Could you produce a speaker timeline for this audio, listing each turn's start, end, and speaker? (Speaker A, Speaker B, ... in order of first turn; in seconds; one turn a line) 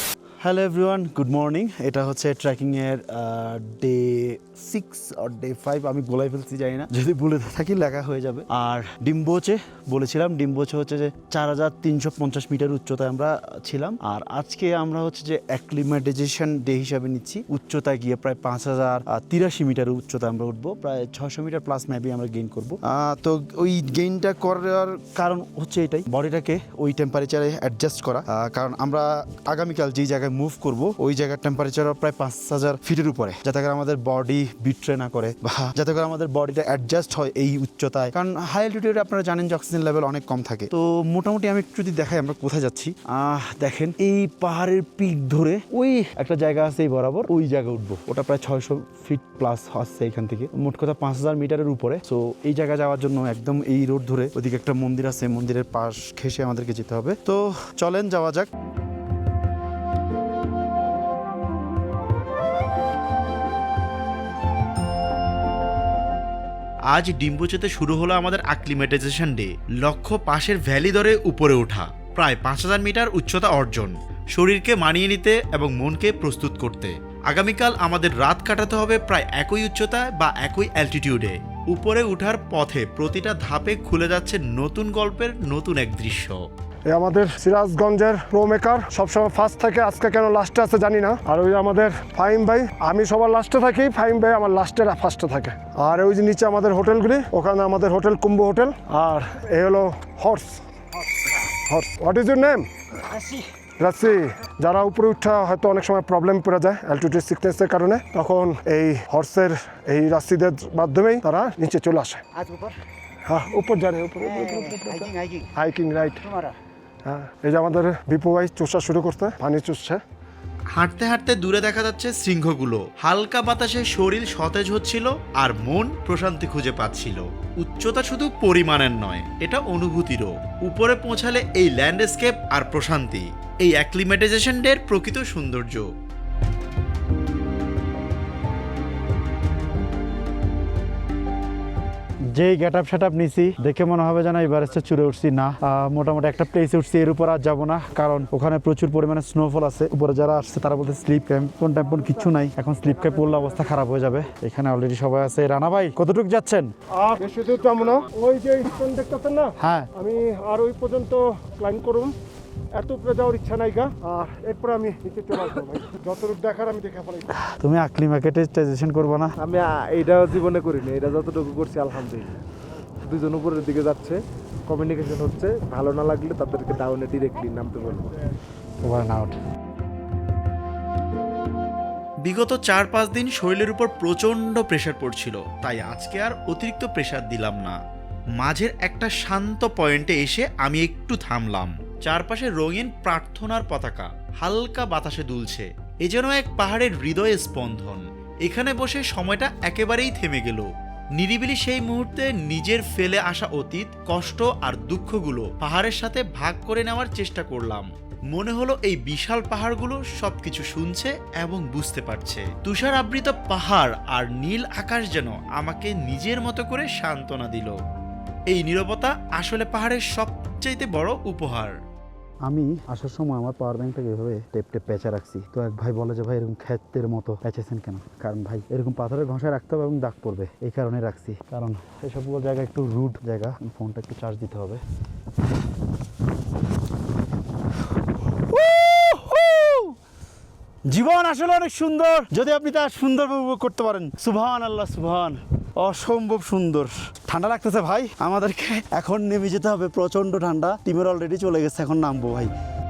Speaker A: 0.4-58.5
Speaker B: 66.9-86.4
Speaker C: 86.9-100.6
Speaker C: 101.4-112.2
Speaker C: 113.3-116.3
Speaker C: 117.0-120.0
Speaker B: 120.7-135.9
Speaker A: 142.3-156.7
Speaker B: 151.0-151.5
Speaker B: 152.1-152.9
Speaker B: 153.5-154.0
Speaker C: 156.9-162.1
Speaker C: 162.7-167.3
Speaker A: 167.6-169.3
Speaker B: 168.6-169.2
Speaker D: 169.4-172.4
Speaker D: 173.0-178.2
Speaker A: 178.8-179.4
Speaker B: 182.2-187.8
Speaker B: 188.4-217.8
Speaker B: 218.5-221.7
Speaker A: 222.5-234.8
Speaker B: 238.5-239.8
Speaker A: 240.9-252.5